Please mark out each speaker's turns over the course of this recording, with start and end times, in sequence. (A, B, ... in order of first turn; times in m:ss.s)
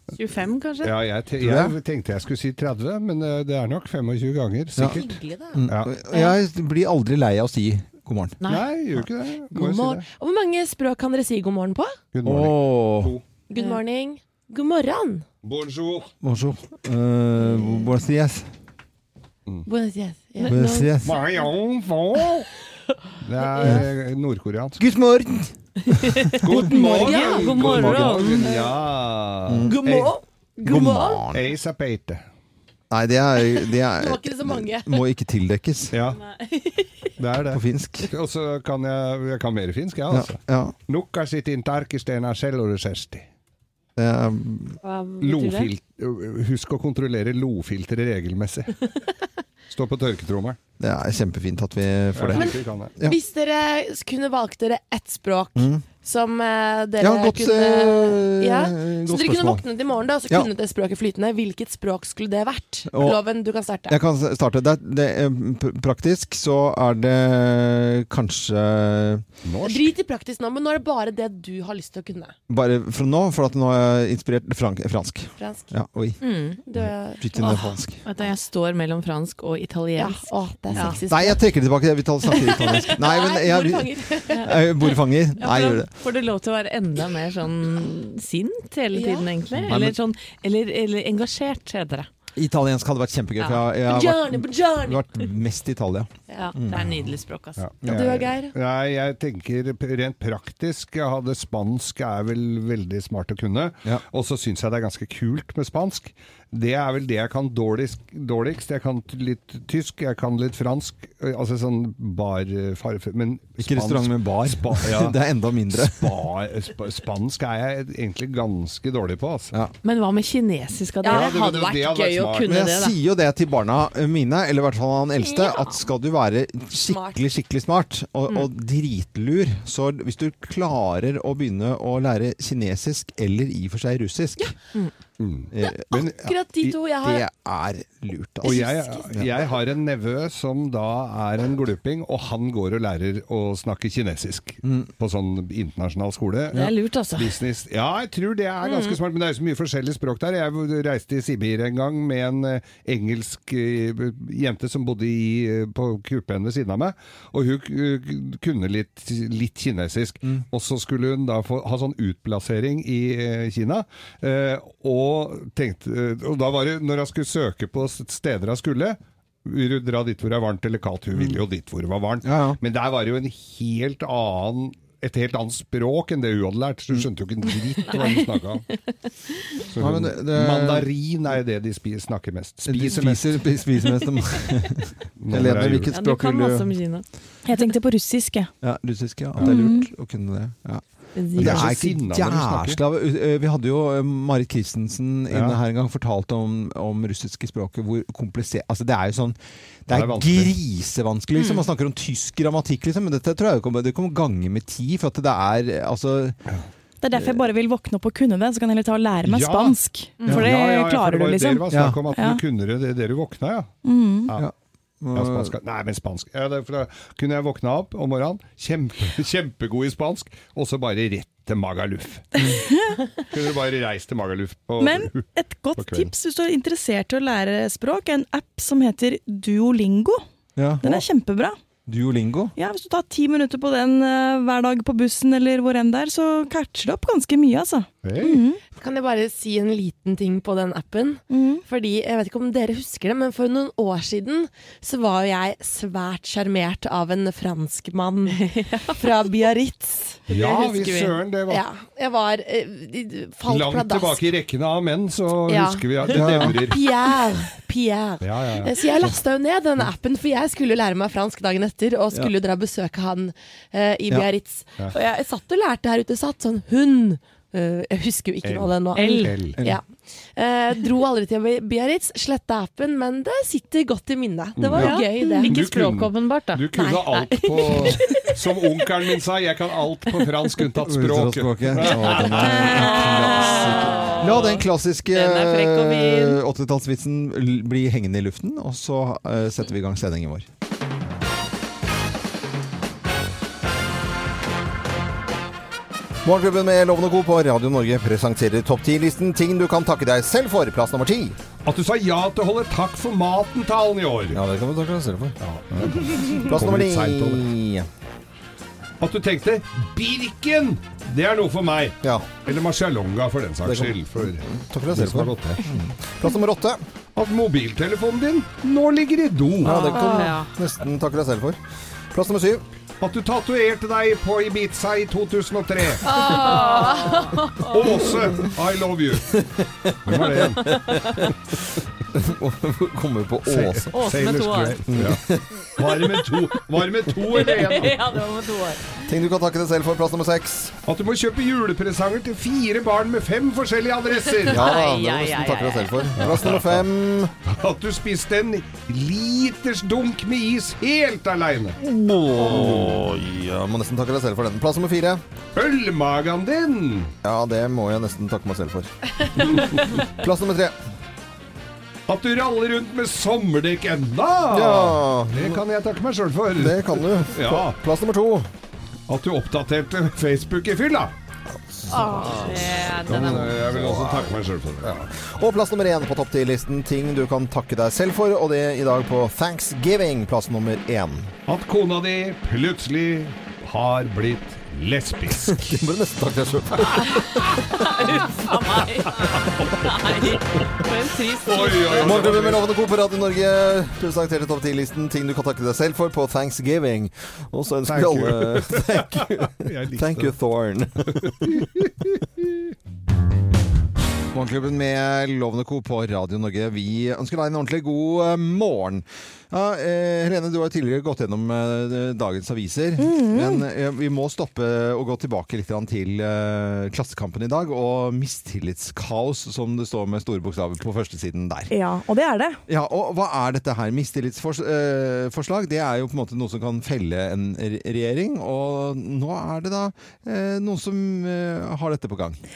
0:00.2-0:01.0 A
0:00.8-0:05.9 B
0:01.4-0:01.7 C
0:04.8-0:05.7 D
0:05.5-0:08.4 C
0:08.4-0:10.0 B
0:09.5-0:12.0 D
0:12.1-0:13.2 B
0:12.2-0:13.2 C
0:13.5-0:15.2 D
0:13.5-0:13.8 A
0:15.4-0:16.1 B
0:16.2-0:18.5 C
0:17.5-0:17.9 D
0:19.6-0:21.5 D
0:20.4-0:20.6 A
0:20.5-0:21.2 C
0:21.0-0:22.5 B
0:23.2-0:24.8 B
0:23.4-0:23.9 D
0:24.8-0:27.0 C
0:25.9-0:28.5 A
0:26.4-0:30.1 B
0:27.0-0:28.8 D
0:27.6-0:28.3 C
0:29.5-0:29.8 C
0:29.6-0:31.2 D
0:30.6-0:31.5 C
0:31.3-0:32.2 B
0:32.9-0:35.9 C
0:33.4-0:35.0 D
0:35.9-0:36.2 B
0:36.4-0:36.7 D
0:37.2-0:43.2 B
0:37.5-0:38.1 C
0:40.1-0:40.7 C
0:44.0-0:44.8 C
0:44.8-0:45.7 A
0:45.2-0:48.9 B
0:49.7-0:50.6 B
0:50.8-0:53.2 C
0:52.1-0:52.9 B
0:52.3-1:04.0 D
0:55.6-0:55.8 C
0:57.0-0:59.6 C
1:02.9-1:03.2 C
1:03.9-1:09.2 C
1:09.4-1:09.9 B
1:09.6-1:12.4 D
1:12.5-1:18.0 C
1:15.4-1:15.7 D
1:16.2-1:16.6 A
1:16.6-1:17.7 D
1:17.4-1:21.0 A
1:20.0-1:21.5 D
1:20.7-1:23.9 C
1:22.3-1:24.5 D
1:24.3-1:24.6 A
1:24.4-1:25.9 C
1:25.4-1:32.1 A
1:28.9-1:29.3 D
1:29.7-1:30.0 C
1:32.4-1:37.1 C
1:33.4-1:35.2 D
1:36.4-1:37.6 A
1:37.6-1:55.2 B
1:37.8-1:38.3 C
1:37.8-1:38.5 D
1:53.6-1:56.1 C
1:55.7-1:59.5 B
1:59.8-2:01.4 A
2:01.0-2:03.0 D
2:01.1-2:02.5 B
2:02.5-2:14.5 C
2:05.2-2:05.9 D
2:06.8-2:07.2 D
2:15.2-2:15.5 B
2:15.5-2:18.6 C
2:15.6-2:17.2 D
2:18.4-2:19.6 D
2:18.4-2:58.7 B
2:24.6-2:24.9 C
2:26.5-2:27.4 A
2:28.6-2:29.0 A
2:52.2-2:52.6 C
2:57.9-2:59.7 A
2:59.7-3:03.5 B
2:59.8-3:00.9 C
3:02.7-3:06.8 C
3:05.2-3:05.9 B
3:05.9-3:07.7 A
3:07.4-3:08.5 E
3:08.6-3:26.5 C
3:09.4-3:09.9 E
3:11.2-3:11.7 A
3:11.3-3:12.8 B
3:15.3-3:15.6 B
3:19.9-3:20.5 B
3:21.4-3:21.7 A
3:27.0-3:32.4 E
3:27.2-3:27.4 C
3:29.2-3:33.7 B
3:31.7-3:32.0 C
3:33.8-3:34.3 E
3:34.4-3:35.5 C
3:35.1-3:42.3 B
3:42.4-3:43.0 E
3:43.3-3:45.2 B
3:44.8-3:50.2 E
3:45.8-3:46.1 B
3:50.6-3:51.0 C
3:50.8-3:51.6 E
3:51.9-3:52.5 C
3:52.6-3:58.6 E
3:58.0-3:58.4 B
3:58.7-4:10.2 D
4:01.3-4:01.6 E
4:08.2-4:09.1 A
4:10.3-4:11.2 A
4:10.3-4:11.6 B
4:11.5-4:14.2 D
4:13.4-4:16.9 B
4:15.5-4:35.6 D
4:16.1-4:16.6 C
4:18.2-4:18.7 B
4:28.4-4:29.6 B
4:28.9-4:29.6 A
4:29.6-4:29.8 C
4:34.6-4:34.9 B
4:34.7-4:36.7 A
4:35.4-4:43.0 B
4:36.7-4:38.9 D
4:37.5-4:38.3 A
4:40.8-4:50.4 C
4:41.8-4:46.4 A
4:56.2-5:01.4 C
5:01.6-5:04.4 B
5:04.3-5:07.9 C
5:05.4-5:07.5 B
5:09.0-5:15.6 B
5:12.0-5:12.3 C
5:13.6-5:16.8 C
5:17.2-5:19.8 B
5:19.6-5:21.6 C
5:19.6-5:20.5 A
5:22.1-5:22.6 C
5:23.0-5:26.1 B
5:26.0-5:27.5 D
5:26.2-5:28.0 A
5:27.6-5:29.4 B
5:29.3-5:31.3 C
5:30.0-5:31.3 B
5:30.6-5:31.2 A
5:32.1-5:33.9 C
5:33.5-5:38.0 B
5:33.9-5:35.1 A
5:34.9-5:35.7 C
5:37.2-5:39.1 A
5:39.0-5:40.7 C
5:40.9-5:44.6 B
5:44.3-5:46.4 A
5:44.5-5:47.3 C
5:46.2-5:46.9 B
5:47.4-5:51.8 B
5:51.8-5:55.2 C
5:52.4-5:53.1 B
5:55.6-5:57.1 B
5:57.2-5:58.9 C
5:59.4-6:00.8 C
5:59.4-5:59.8 B
6:02.1-6:07.8 B
6:04.5-6:05.6 C
6:06.6-6:08.5 C
6:09.1-6:11.1 B
6:11.8-6:21.3 C
6:11.9-6:12.5 D
6:11.9-6:13.6 A
6:12.4-6:15.1 B
6:21.5-6:25.8 B
6:25.5-6:27.5 C
6:27.1-6:32.4 A
6:29.1-6:30.7 B
6:31.4-6:32.7 B
6:32.0-6:41.6 C
6:37.9-6:40.4 B
6:41.1-6:42.6 B
6:44.3-7:01.7 C
6:53.0-6:53.6 E
7:01.7-7:02.6 E
7:02.7-7:12.4 C